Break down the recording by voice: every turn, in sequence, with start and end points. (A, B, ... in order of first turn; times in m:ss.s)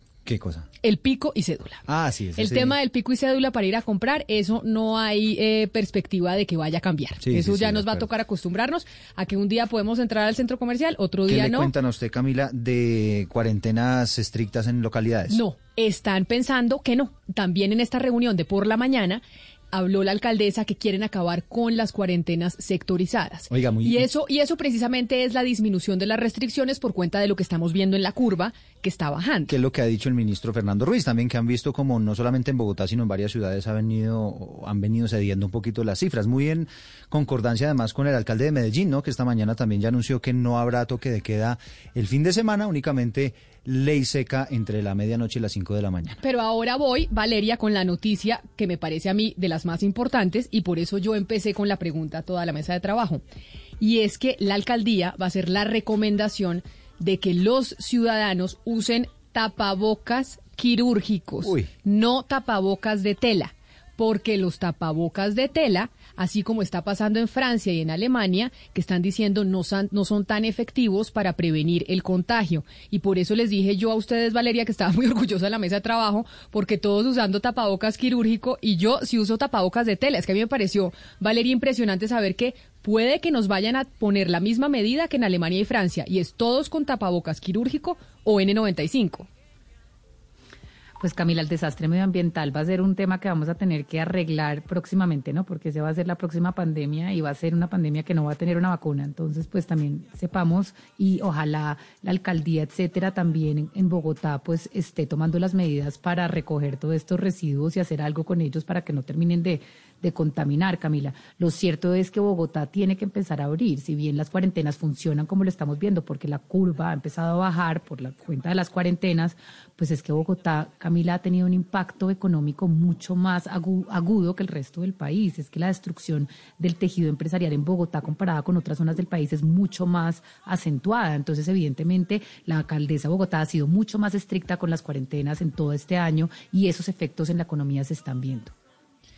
0:00.3-0:00.7 A
0:00.8-0:01.8 B
0:01.9-0:02.8 A
0:02.4-0:11.7 B
0:07.2-0:08.1 A
0:11.3-0:15.4 A
0:15.3-0:29.6 B
0:23.5-0:24.1 A
0:29.5-0:46.2 A
0:46.2-0:53.2 B
0:53.8-1:29.3 B
1:01.4-1:01.7 A
1:31.0-2:18.5 C